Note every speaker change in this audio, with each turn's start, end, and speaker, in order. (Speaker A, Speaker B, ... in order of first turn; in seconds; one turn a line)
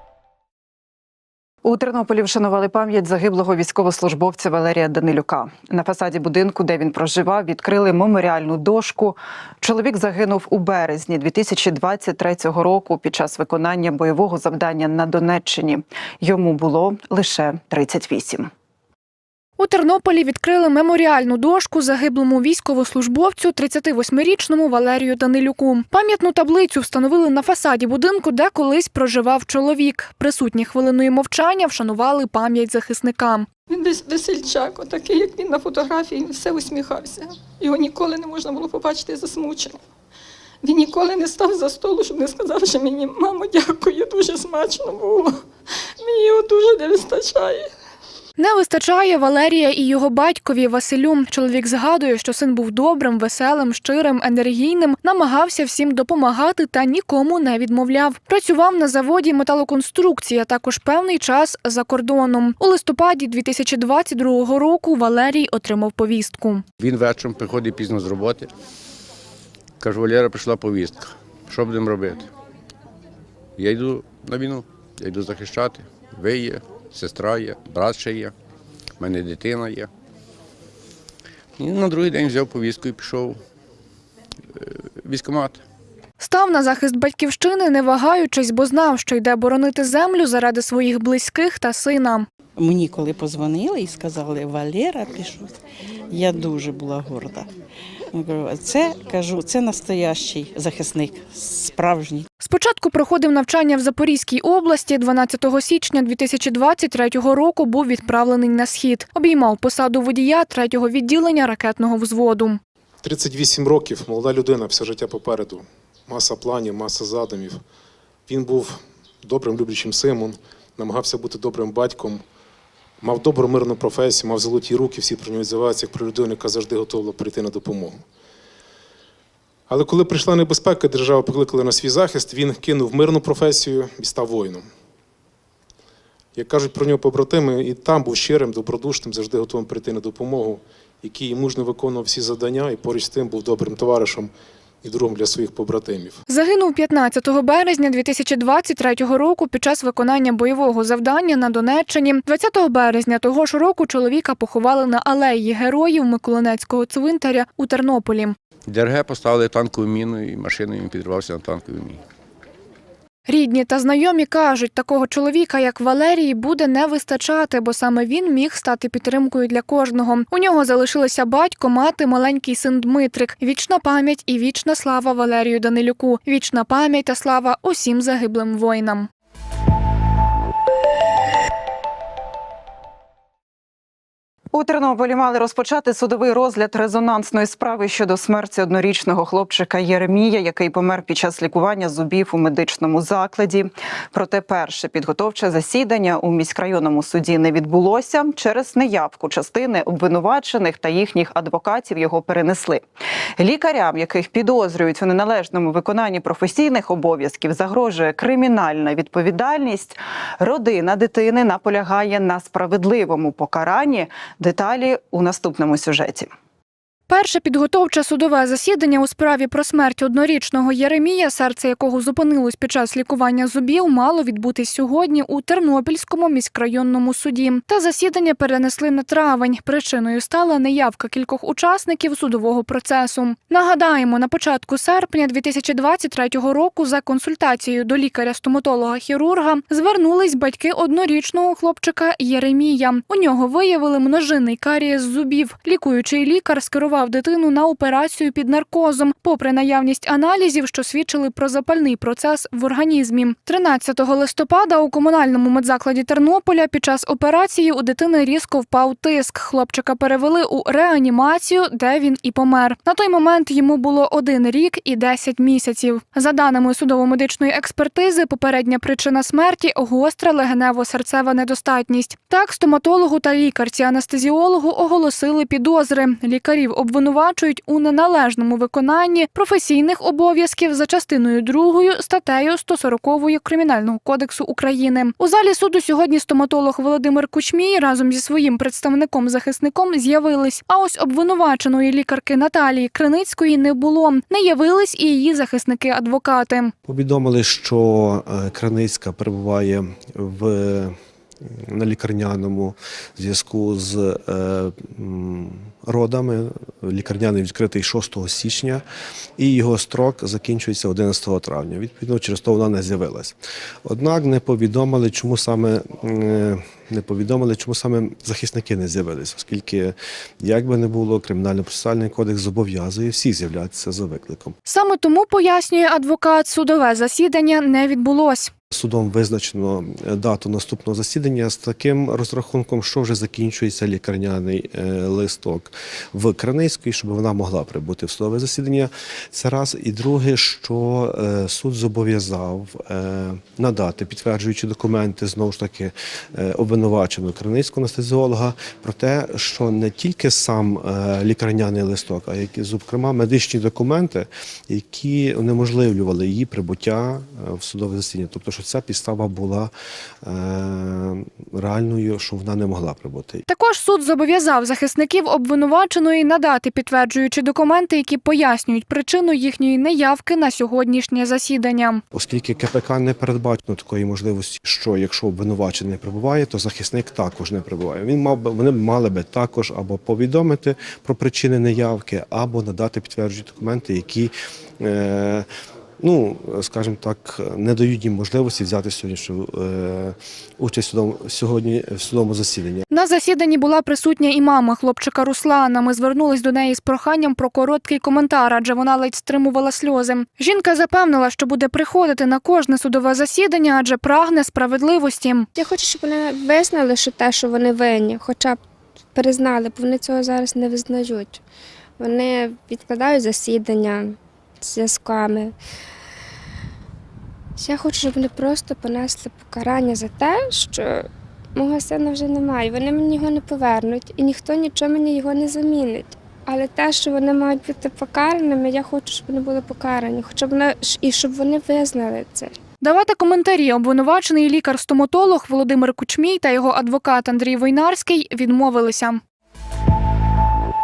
Speaker A: 1.6-18.5
Speaker B: 19.6-33.5
Speaker C: 33.7-39.8
Speaker C: 40.6-45.4
Speaker C: 46.0-47.7
Speaker B: 48.4-66.6
Speaker D: 66.8-68.5
Speaker D: 69.8-72.3
Speaker D: 73.6-78.3
Speaker D: 79.0-79.9
Speaker D: 81.6-83.4
Speaker D: 84.5-85.6
Speaker B: 86.2-92.3
Speaker E: 92.6-95.5
Speaker E: 96.1-97.5
Speaker E: 98.1-102.3
Speaker B: 102.4-112.6
Speaker F: 113.0-117.6
Speaker F: 118.3-122.2
Speaker F: 123.0-128.0
Speaker F: 129.7-134.7
Speaker F: 136.3-144.3
Speaker F: 144.8-146.2
Speaker B: 146.3-158.3
Speaker D: 158.7-162.0
Speaker B: 163.3-179.1
Speaker A: 184.5-202.8
Speaker A: 203.4-216.3
Speaker B: 217.1-296.7
Speaker G: 296.9-308.8
Speaker G: 309.4-324.5
Speaker B: 324.6-328.5
Speaker G: 328.7-359.7
Speaker G: 360.2-363.4
Speaker B: 363.5-372.0
Speaker G: 372.1-385.5
Speaker G: 386.0-392.8
Speaker B: 392.9-405.5
Speaker H: 405.5-408.6
Speaker H: 409.1-411.4
Speaker H: 412.0-415.5
Speaker H: 417.6-432.5
Speaker B: 432.8-439.2